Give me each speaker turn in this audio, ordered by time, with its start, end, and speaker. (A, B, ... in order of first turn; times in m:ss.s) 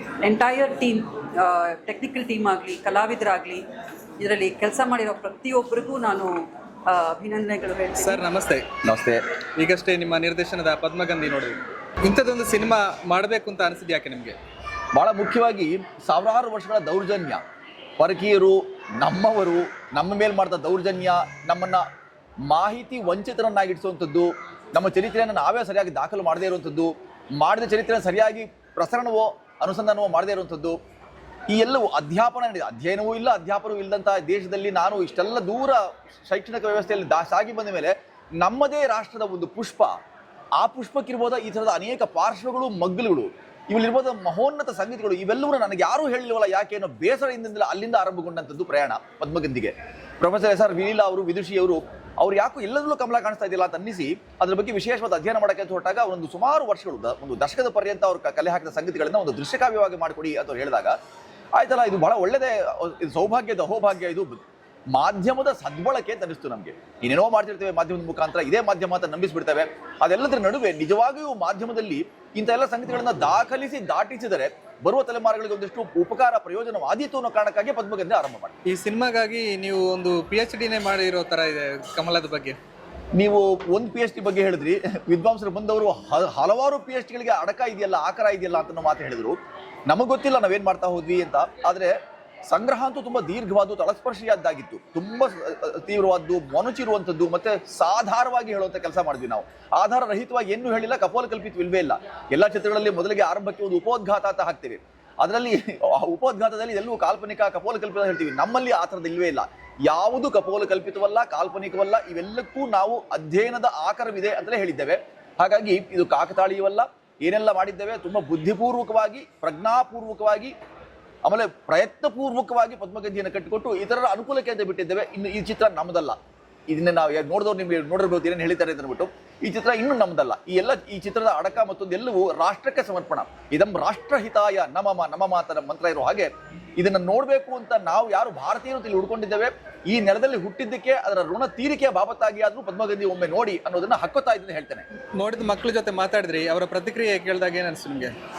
0:00.2-0:03.6 A
0:04.2-0:06.4 A
0:06.9-0:08.2 A
0:08.0-0:08.7 B
0:08.8-0:09.2 C
0:09.6-0:14.4 B
0:14.9-0:17.4 C
0:18.0-0:21.8 C
0:22.5-0:30.8 C
0:31.5-0:40.0 C
0:40.6-1:01.0 C
1:01.6-1:18.5 C
1:18.7-1:22.6 B
1:23.2-1:31.9 C
1:32.5-2:00.5 C
2:01.2-2:06.2 C
2:06.7-2:24.8 C
2:25.2-2:28.1 B